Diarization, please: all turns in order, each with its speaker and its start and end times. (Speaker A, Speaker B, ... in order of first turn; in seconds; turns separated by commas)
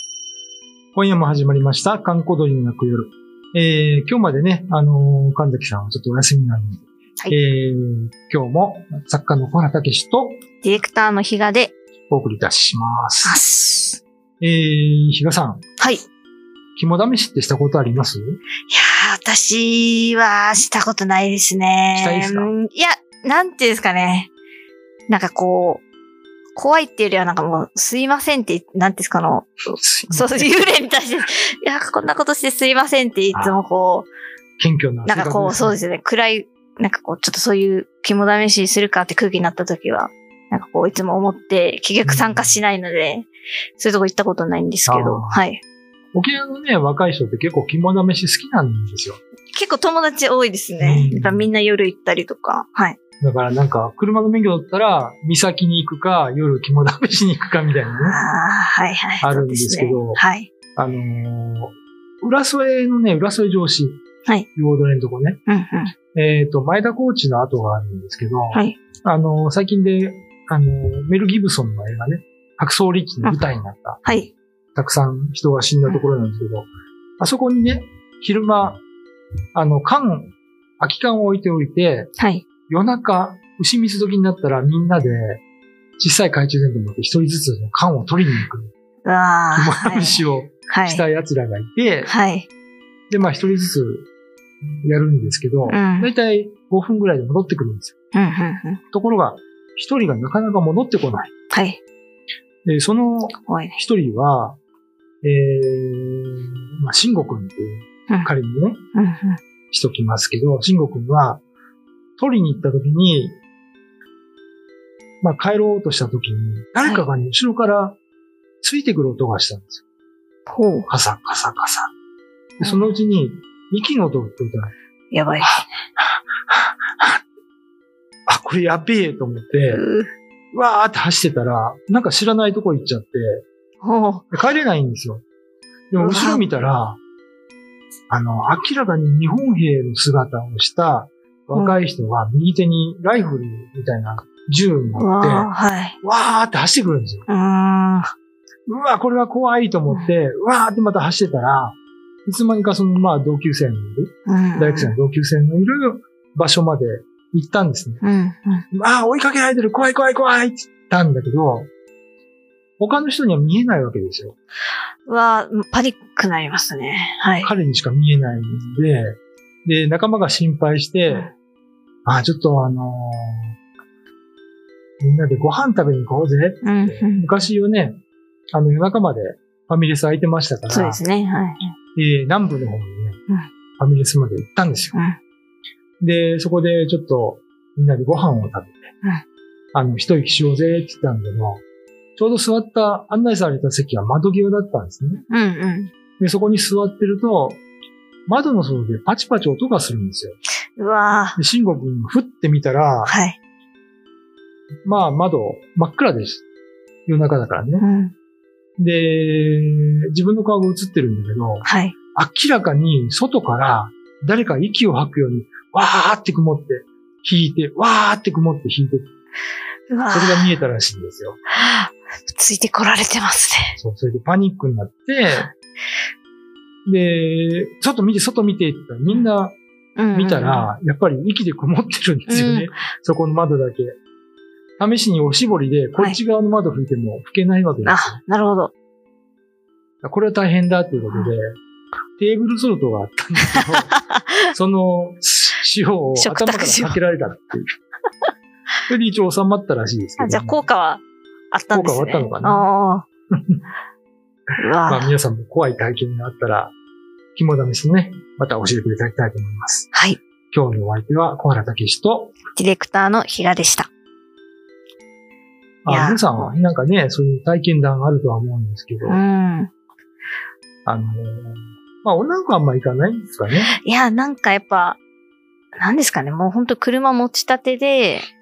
Speaker A: 0.9-10.4, Speaker B: 10.6-11.7, Speaker A: 12.1-13.4, Speaker B: 13.2-14.0, Speaker A: 14.4-15.6, Speaker B: 15.8-16.0, Speaker A: 16.8-18.4, Speaker B: 18.7-24.3, Speaker A: 21.9-22.5, Speaker B: 25.1-25.8, Speaker B: 26.6-34.1, Speaker A: 29.8-30.5, Speaker A: 33.3-33.6, Speaker A: 34.6-35.8, Speaker B: 35.1-45.6, Speaker A: 42.0-42.6, Speaker A: 44.9-45.4, Speaker A: 46.1-49.2, Speaker B: 49.5-53.0, Speaker A: 50.8-51.5, Speaker A: 53.2-58.2, Speaker B: 58.0-60.5, Speaker A: 59.2-60.2, Speaker A: 60.8-64.0, Speaker A: 64.5-65.4, Speaker B: 65.5-65.9, Speaker A: 66.1-74.0, Speaker B: 74.0-74.3, Speaker A: 74.8-78.8, Speaker A: 79.5-82.1, Speaker B: 82.2-82.5, Speaker A: 82.7-85.4, Speaker A: 86.0-88.7, Speaker B: 89.0-91.0, Speaker A: 89.5-92.1, Speaker B: 92.1-92.5, Speaker A: 93.1-94.1, Speaker A: 94.8-98.0, Speaker B: 95.7-96.1, Speaker B: 98.1-98.8, Speaker A: 98.9-101.3, Speaker B: 101.5-101.8, Speaker A: 102.7-104.6, Speaker B: 103.5-103.8, Speaker A: 105.2-108.8, Speaker B: 109.0-109.4, Speaker A: 109.7-111.4, Speaker A: 112.2-113.4, Speaker A: 115.2-118.0, Speaker A: 118.6-119.8, Speaker B: 120.5-120.9, Speaker A: 120.9-121.9, Speaker A: 122.6-124.7, Speaker B: 122.6-122.9, Speaker B: 125.1-125.7, Speaker A: 125.4-127.2, Speaker A: 128.3-129.8, Speaker B: 129.7-130.1, Speaker A: 130.5-133.4, Speaker B: 133.8-134.3, Speaker A: 134.3-135.2, Speaker A: 135.9-137.0, Speaker B: 136.0-136.4, Speaker A: 138.1-145.5, Speaker B: 145.0-146.0, Speaker A: 146.0-147.3, Speaker B: 147.3-148.1, Speaker A: 148.7-158.0, Speaker B: 154.3-154.9, Speaker B: 158.0-158.6, Speaker A: 158.7-161.7, Speaker A: 162.8-164.3, Speaker B: 165.1-167.5, Speaker A: 167.4-171.3, Speaker A: 172.1-173.6, Speaker A: 175.0-178.0, Speaker B: 176.6-177.3, Speaker A: 178.5-181.0, Speaker B: 180.7-181.8, Speaker A: 181.9-183.2, Speaker A: 183.8-184.9, Speaker A: 186.0-188.9, Speaker A: 189.7-191.6, Speaker A: 192.2-195.2, Speaker B: 195.3-195.9, Speaker A: 196.2-197.6, Speaker A: 198.3-200.4, Speaker B: 200.8-201.4, Speaker A: 201.4-203.2, Speaker B: 203.1-203.4, Speaker A: 204.8-206.4, Speaker A: 207.1-207.8, Speaker B: 207.8-208.1, Speaker A: 208.8-219.1, Speaker B: 211.7-211.9, Speaker B: 219.9-220.5, Speaker A: 220.1-221.4, Speaker B: 221.6-223.8, Speaker A: 223.8-225.5, Speaker A: 226.8-229.6, Speaker B: 230.0-230.7, Speaker A: 230.1-234.0, Speaker B: 232.3-232.7, Speaker A: 234.8-238.2, Speaker B: 237.8-238.7, Speaker A: 240.0-241.6, Speaker A: 242.2-243.9, Speaker B: 243.5-244.5, Speaker A: 244.5-247.7, Speaker B: 246.2-247.0, Speaker A: 248.9-250.6, Speaker B: 250.2-253.1, Speaker A: 251.7-252.7, Speaker A: 253.3-253.6, Speaker B: 254.6-255.1, Speaker A: 254.9-256.7, Speaker A: 257.4-259.9, Speaker B: 259.9-260.2, Speaker A: 260.5-262.4, Speaker B: 262.6-263.9, Speaker A: 265.9-269.2, Speaker B: 265.9-266.6, Speaker B: 269.1-269.7, Speaker A: 270.9-273.7, Speaker B: 273.8-275.0, Speaker B: 275.8-278.3